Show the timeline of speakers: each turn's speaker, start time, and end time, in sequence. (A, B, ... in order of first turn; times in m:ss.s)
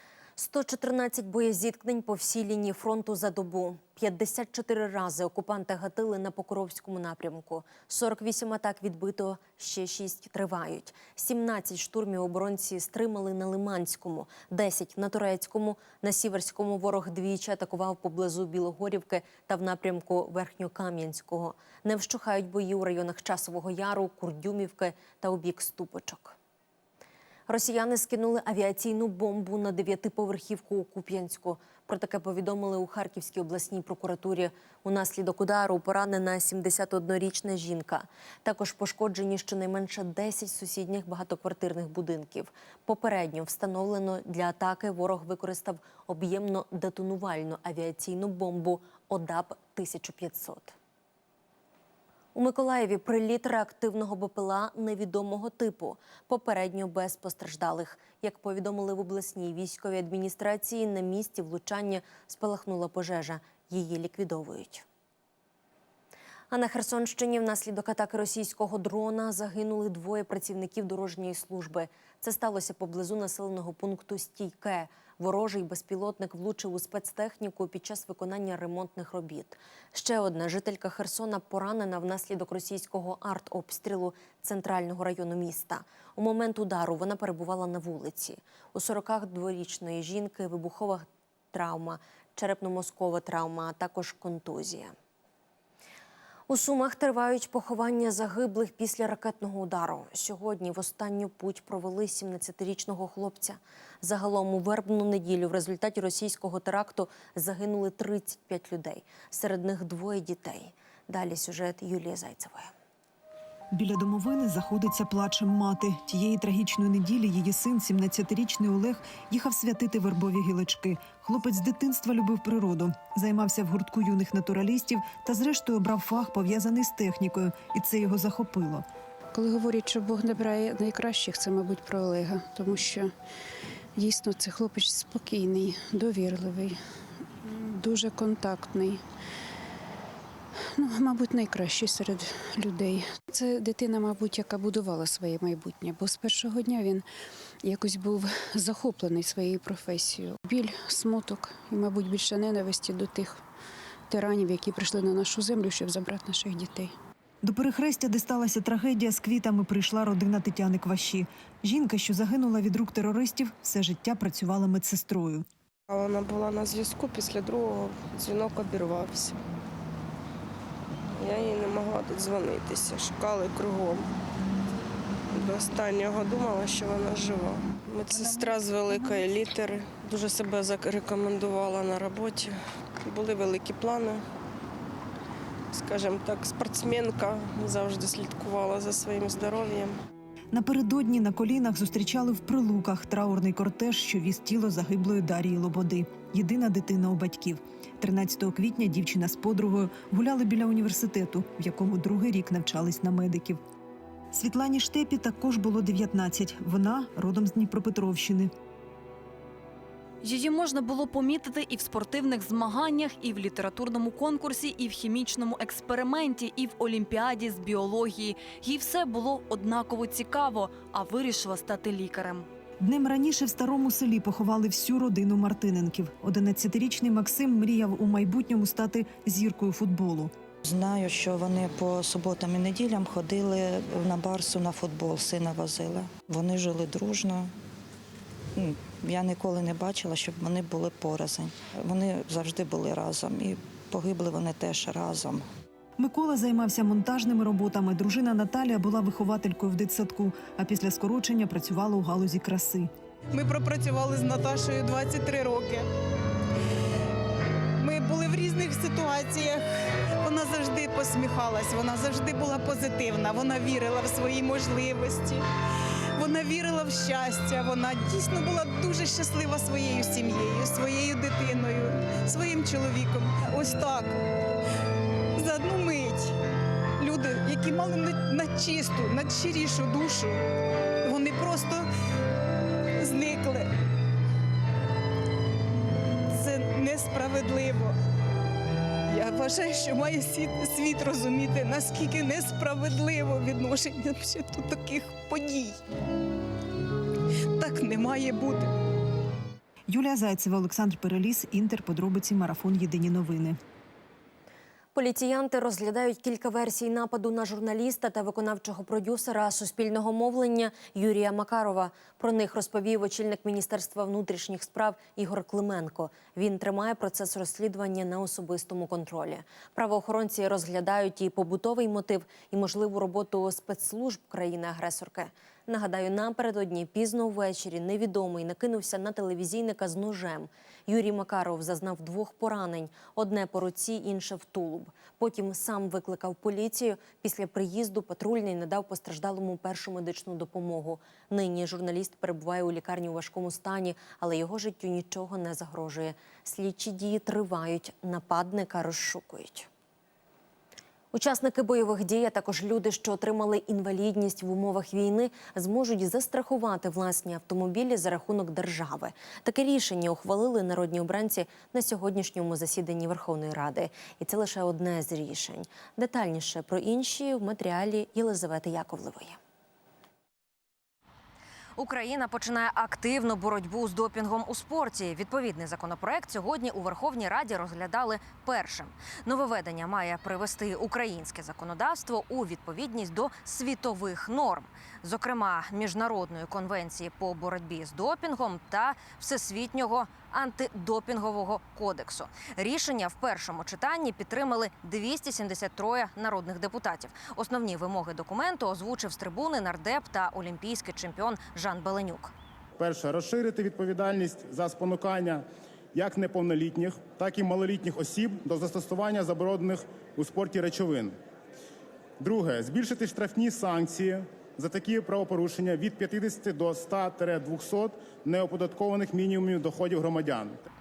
0:00.4-0:26.4 A
0:27.5-0:50.8 A
0:52.4-1:04.8 A
1:06.5-1:35.0 A
1:36.5-1:52.7 A
1:53.7-2:08.8 B
2:09.3-2:13.1 C
2:14.0-2:16.8 C
2:17.5-2:19.0 C
2:20.8-2:27.0 C
2:27.6-2:33.4 C
2:34.1-2:36.9 C
2:37.4-2:45.4 B
2:45.9-2:49.4 D
2:51.2-2:54.1 D
2:55.3-3:04.2 D
2:58.1-2:59.3 B
3:05.7-3:10.0 D
3:10.5-3:23.6 B
3:24.3-3:28.5 B
3:30.2-3:42.5 E
3:42.8-3:50.3 B
3:50.7-3:57.5 F
3:58.6-4:05.4 F
4:06.0-4:12.9 B
4:13.3-4:15.9 G
4:17.8-4:19.7 G
4:20.2-4:25.4 G
4:26.2-4:34.2 G
4:35.4-4:36.4 G
4:37.0-4:40.4 G
4:41.0-4:41.9 G
4:43.0-4:43.7 G
4:46.3-4:48.0 G
4:49.1-4:55.8 G
4:57.6-4:58.7 G
4:59.9-5:03.6 B
5:04.9-5:49.7 A
5:51.1-6:09.4 A
6:11.8-6:42.3 H
6:42.8-6:45.4 I
6:46.0-6:51.1 I
6:52.2-7:00.6 I